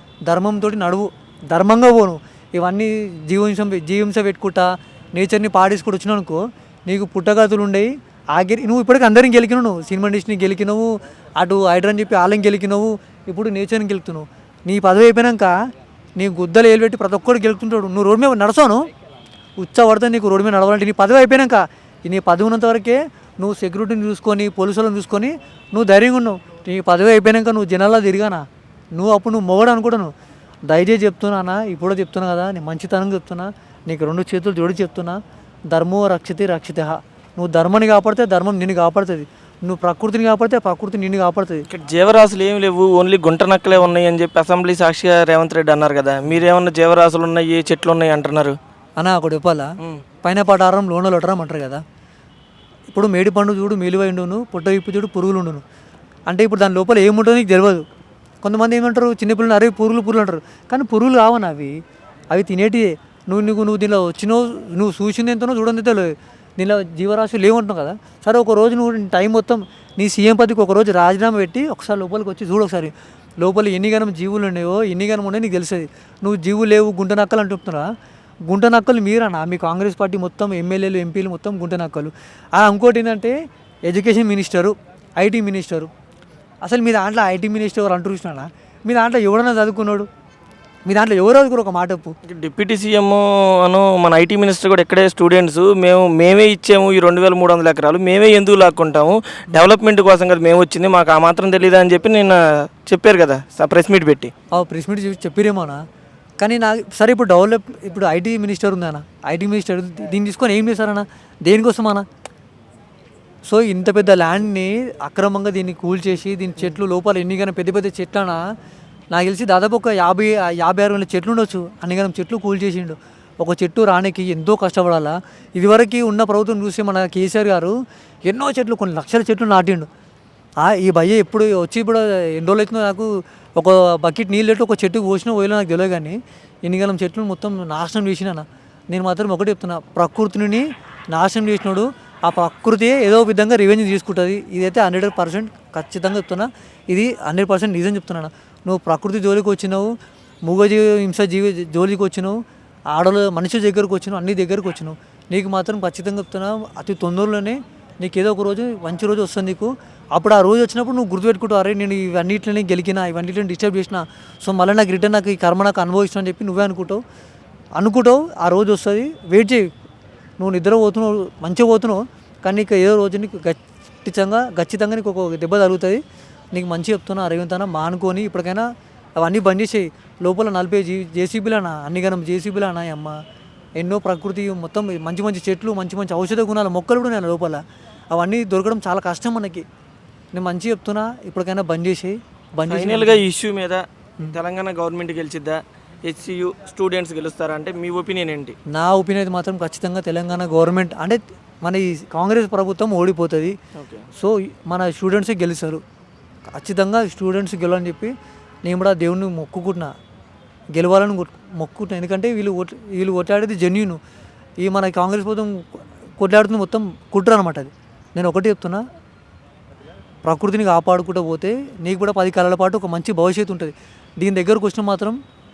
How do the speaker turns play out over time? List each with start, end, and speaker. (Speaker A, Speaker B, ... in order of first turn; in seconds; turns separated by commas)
Speaker A: 0.3-15.5, Speaker A: 16.2-18.8, Speaker A: 19.6-30.1, Speaker A: 30.7-41.6, Speaker B: 41.7-48.6, Speaker A: 49.0-49.7, Speaker A: 50.2-51.8, Speaker A: 52.9-55.6, Speaker A: 56.3-57.9, Speaker A: 58.4-61.8, Speaker A: 62.3-77.9, Speaker A: 78.5-85.9, Speaker A: 86.6-90.1, Speaker A: 90.9-92.1, Speaker B: 92.3-104.3, Speaker A: 104.5-105.8, Speaker A: 106.4-112.1, Speaker A: 113.5-118.4, Speaker A: 119.1-129.9, Speaker A: 130.6-149.9, Speaker A: 150.5-152.4, Speaker A: 152.9-167.0, Speaker A: 167.8-169.7, Speaker A: 170.4-176.0, Speaker A: 176.5-178.7, Speaker A: 179.2-183.2, Speaker A: 183.8-187.6, Speaker A: 188.1-189.7, Speaker A: 190.3-193.2, Speaker B: 192.7-198.6, Speaker A: 198.7-203.6, Speaker B: 203.8-204.1, Speaker A: 204.2-205.8, Speaker A: 206.5-208.1, Speaker A: 208.7-209.9, Speaker A: 210.8-214.0, Speaker A: 214.6-215.7, Speaker A: 216.2-218.8, Speaker A: 220.2-225.2